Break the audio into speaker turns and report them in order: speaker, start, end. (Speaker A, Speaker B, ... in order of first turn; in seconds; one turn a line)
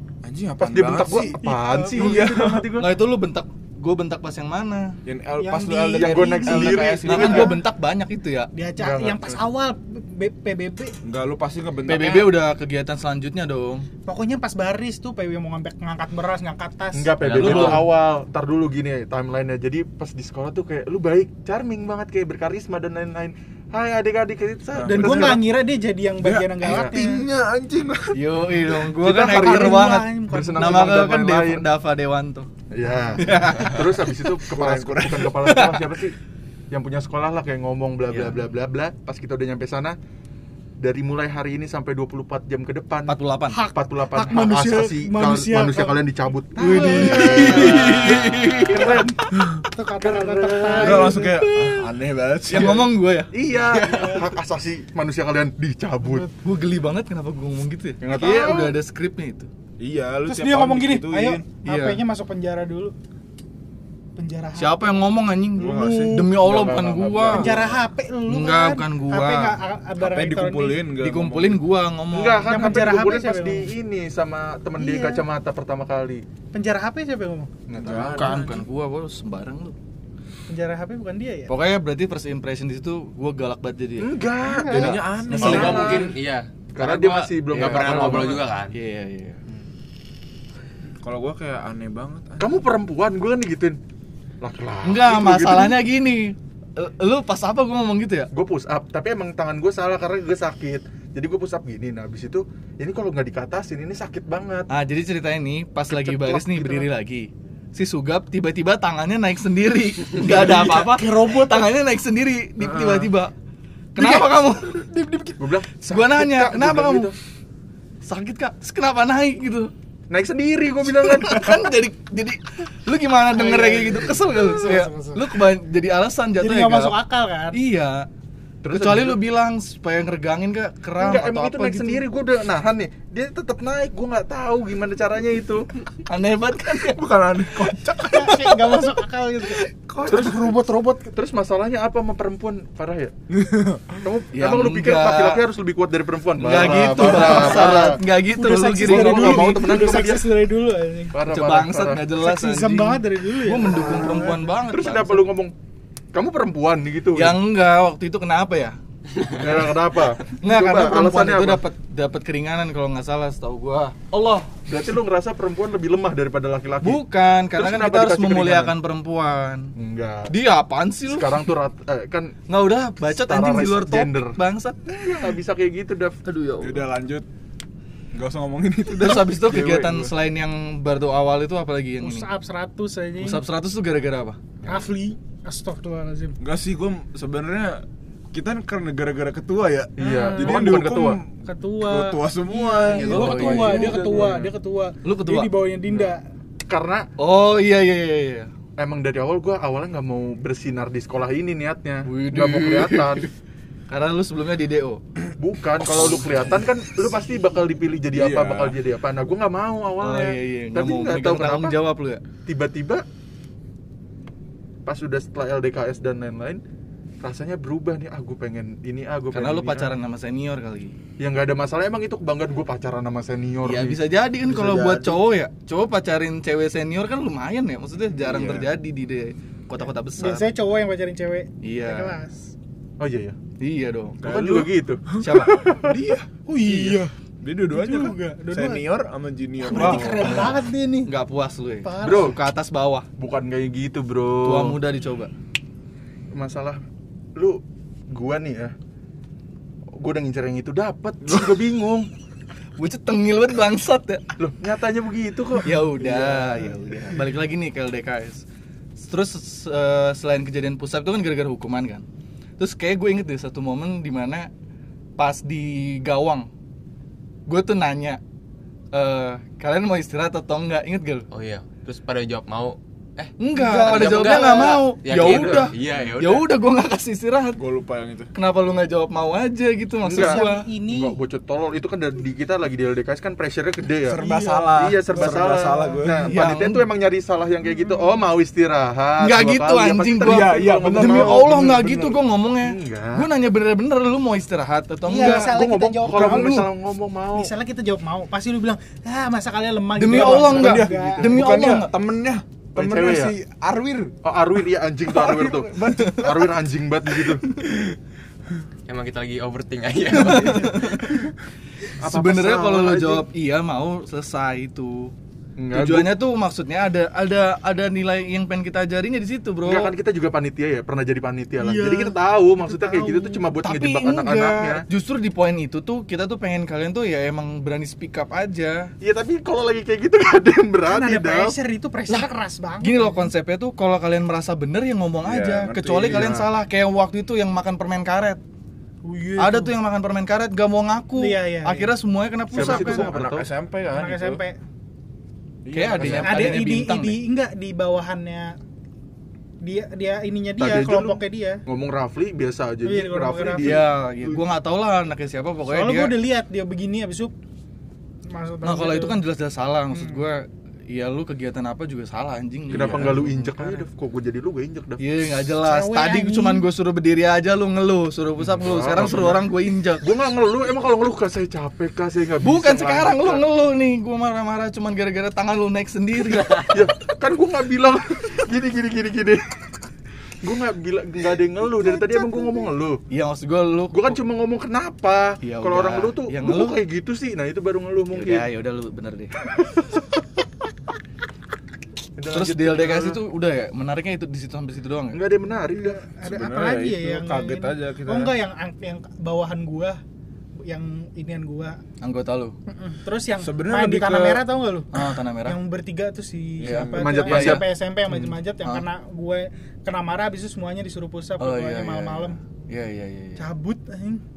Speaker A: 0.2-2.7
Speaker B: 0.6-2.9
Speaker C: 1.4-2.2
Speaker D: 2.8-5.0
Speaker A: 5.0-7.6
Speaker C: 5.4-7.5
Speaker B: 6.0-7.6
Speaker D: 7.0-8.5
Speaker C: 8.5-11.0
Speaker B: 8.8-9.4
Speaker A: 11.0-12.4
Speaker D: 11.9-13.9
Speaker C: 14.1-17.1
Speaker B: 16.9-25.4
Speaker D: 17.2-17.9
Speaker A: 17.4-17.8
Speaker A: 24.7-25.4
Speaker C: 24.9-27.2
Speaker A: 26.2-28.2
Speaker B: 26.7-27.0
Speaker D: 28.1-32.5
Speaker B: 28.9-31.7
Speaker C: 29.2-31.1
Speaker B: 32.7-36.2
Speaker D: 33.2-34.2
Speaker A: 34.4-35.5
Speaker D: 35.4-35.9
Speaker B: 36.7-40.0
Speaker D: 38.1-38.4
Speaker B: 40.8-43.2
Speaker D: 43.1-43.6
Speaker C: 43.5-46.0
Speaker B: 43.7-49.2
Speaker C: 46.6-47.8
Speaker D: 46.6-49.0
Speaker A: 47.1-48.4
Speaker A: 49.3-49.6
Speaker C: 49.7-51.3
Speaker B: 50.0-51.3
Speaker A: 50.8-53.0
Speaker D: 51.3-51.9
Speaker D: 52.5-53.8
Speaker B: 53.3-56.3
Speaker C: 53.7-54.3
Speaker C: 56.0-56.3
Speaker D: 56.4-59.5
Speaker B: 58.0-58.8
Speaker A: 59.8-61.5
Speaker C: 60.3-62.9
Speaker D: 61.6-62.0
Speaker C: 64.2-65.0
Speaker D: 64.6-67.5
Speaker A: 65.6-66.3
Speaker C: 65.6-66.1
Speaker B: 66.3-67.6
Speaker A: 67.3-67.8
Speaker C: 67.3-70.9
Speaker D: 68.3-69.6
Speaker A: 70.0-71.6
Speaker D: 71.0-72.5
Speaker B: 72.1-76.2
Speaker C: 72.4-73.7
Speaker C: 74.8-75.2
Speaker C: 76.5-77.5
Speaker B: 77.7-78.6
Speaker A: 77.8-78.4
Speaker D: 78.1-79.8
Speaker C: 80.5-81.5
Speaker D: 81.5-84.1
Speaker B: 84.0-86.2
Speaker C: 84.4-85.6
Speaker A: 84.7-86.1
Speaker D: 84.7-85.9
Speaker E: 85.4-88.8
Speaker B: 86.7-88.5
Speaker D: 87.2-89.4
Speaker A: 91.0-92.6
Speaker B: 92.4-93.8
Speaker B: 94.4-95.8
Speaker D: 94.8-98.3
Speaker B: 98.3-104.7
Speaker D: 104.7-113.3
Speaker B: 105.9-106.9
Speaker B: 110.2-111.0
Speaker B: 112.6-113.1
Speaker D: 114.0-117.1
Speaker B: 114.0-114.5
Speaker B: 115.4-117.2
Speaker D: 118.0-119.7
Speaker B: 120.1-121.7
Speaker D: 120.9-127.0
Speaker C: 123.3-125.4
Speaker C: 126.4-127.6
Speaker D: 127.5-128.1
Speaker B: 128.6-129.2
Speaker D: 128.7-132.0
Speaker B: 131.0-135.7
Speaker D: 136.1-137.1
Speaker A: 136.9-138.3
Speaker D: 137.6-138.9
Speaker C: 138.1-139.7
Speaker A: 139.9-140.6
Speaker B: 140.1-143.1
Speaker C: 140.2-141.1
Speaker A: 143.3-144.0
Speaker B: 144.0-148.0
Speaker D: 144.3-145.4
Speaker D: 146.4-149.7
Speaker C: 146.9-151.2
Speaker B: 148.8-150.3
Speaker B: 151.1-152.0
Speaker D: 151.3-155.3
Speaker C: 152.2-154.5
Speaker B: 154.0-155.5
Speaker B: 156.1-157.4
Speaker D: 157.2-159.6
Speaker B: 159.3-161.6
Speaker D: 160.4-164.5
Speaker B: 164.1-167.0
Speaker D: 166.8-169.7
Speaker B: 167.6-168.7
Speaker B: 169.8-170.3
Speaker D: 170.3-171.5
Speaker B: 171.1-172.4
Speaker D: 172.5-174.8
Speaker B: 173.1-176.2
Speaker D: 176.2-176.8
Speaker A: 176.6-177.3
Speaker A: 178.1-180.1
Speaker D: 179.0-182.3
Speaker C: 182.0-183.4
Speaker D: 183.2-184.4
Speaker C: 184.6-186.4
Speaker A: 186.4-194.0
Speaker B: 190.0-191.2
Speaker C: 190.0-190.7
Speaker C: 191.4-196.2
Speaker D: 192.9-194.1
Speaker B: 193.0-194.5
Speaker D: 195.1-195.5
Speaker B: 196.7-197.1
Speaker D: 197.2-198.5
Speaker B: 198.8-203.3
Speaker D: 202.1-203.3
Speaker D: 203.9-205.0
Speaker B: 205.4-211.8
Speaker A: 205.8-206.5
Speaker A: 208.1-208.8
Speaker D: 210.0-212.2
Speaker B: 212.5-213.1
Speaker B: 214.9-216.6
Speaker B: 217.2-219.9
Speaker D: 219.3-220.9
Speaker B: 221.2-224.0
Speaker D: 223.6-230.5
Speaker A: 224.4-225.2
Speaker A: 228.1-228.7
Speaker C: 230.2-232.5
Speaker D: 231.6-232.2
Speaker B: 233.0-233.4
Speaker D: 233.6-234.2
Speaker A: 234.2-240.6
Speaker B: 234.2-236.0
Speaker D: 235.2-235.6
Speaker C: 236.5-237.1
Speaker C: 237.7-238.9
Speaker C: 239.6-241.1
Speaker D: 239.8-240.5
Speaker D: 241.1-243.1
Speaker C: 241.8-242.4
Speaker B: 242.0-242.4
Speaker B: 243.2-244.8
Speaker D: 244.4-245.3
Speaker B: 246.3-246.8
Speaker B: 247.4-248.8
Speaker B: 250.0-252.1
Speaker A: 251.2-251.6
Speaker D: 252.8-254.3
Speaker B: 254.4-256.0
Speaker D: 255.6-258.4
Speaker A: 256.0-256.9
Speaker D: 259.0-262.0
Speaker D: 262.6-264.5
Speaker D: 265.2-266.5
Speaker D: 267.5-268.2
Speaker D: 268.9-271.3
Speaker E: 271.3-276.5
Speaker D: 273.4-277.6
Speaker C: 273.5-274.8
Speaker B: 275.3-275.6
Speaker A: 277.6-278.3
Speaker D: 278.4-280.7
Speaker B: 280.0-284.2
Speaker C: 280.1-281.2
Speaker A: 284.0-286.3
Speaker C: 284.2-286.1
Speaker B: 284.7-291.6
Speaker D: 286.3-286.9
Speaker D: 289.2-296.7
Speaker A: 290.2-292.2
Speaker B: 292.6-293.3
Speaker C: 295.1-296.6
Speaker B: 295.1-297.5
Speaker C: 297.4-301.4
Speaker D: 300.0-301.9
Speaker A: 300.1-304.1
Speaker B: 300.5-301.8
Speaker B: 302.8-303.3
Speaker B: 304.2-307.4
Speaker A: 305.1-306.5
Speaker E: 308.9-311.1
Speaker D: 310.1-311.3
Speaker B: 312.0-313.3
Speaker D: 312.0-315.1
Speaker B: 315.6-316.1
Speaker D: 315.7-319.9
Speaker B: 319.6-324.9
Speaker C: 321.6-323.5
Speaker D: 323.6-328.9
Speaker B: 329.0-331.6
Speaker C: 330.9-333.3
Speaker D: 332.8-338.4
Speaker A: 335.2-336.5
Speaker B: 336.1-336.5
Speaker C: 339.0-339.7
Speaker D: 339.4-343.1
Speaker C: 341.2-341.9
Speaker B: 342.5-343.5
Speaker A: 342.6-344.4
Speaker C: 343.9-344.6
Speaker A: 345.6-346.6
Speaker D: 345.7-347.2
Speaker B: 346.0-346.3
Speaker C: 346.1-348.6
Speaker C: 349.6-351.6
Speaker B: 350.6-353.8
Speaker C: 352.9-353.8
Speaker D: 353.6-356.1
Speaker C: 355.7-357.3
Speaker C: 358.3-359.2
Speaker D: 358.6-363.9
Speaker C: 359.9-360.2
Speaker B: 362.7-365.0
Speaker A: 362.7-363.1
Speaker D: 365.0-370.1
Speaker C: 365.6-366.7
Speaker B: 368.4-369.4
Speaker B: 370.0-373.4
Speaker D: 372.4-376.9
Speaker B: 376.6-379.6
Speaker B: 380.4-383.0
Speaker C: 381.8-382.7
Speaker D: 383.1-384.2
Speaker B: 383.9-388.5
Speaker D: 385.4-386.8
Speaker D: 388.1-389.3
Speaker B: 392.2-393.2
Speaker D: 392.3-395.2
Speaker B: 395.1-396.0
Speaker C: 395.7-400.0
Speaker A: 396.2-398.3
Speaker C: 400.6-401.8
Speaker D: 402.0-402.6
Speaker C: 402.7-412.4
Speaker A: 403.4-404.5
Speaker D: 404.9-405.6
Speaker A: 406.6-407.3
Speaker D: 406.6-408.8
Speaker B: 406.9-407.7
Speaker D: 411.4-413.4
Speaker C: 413.4-414.2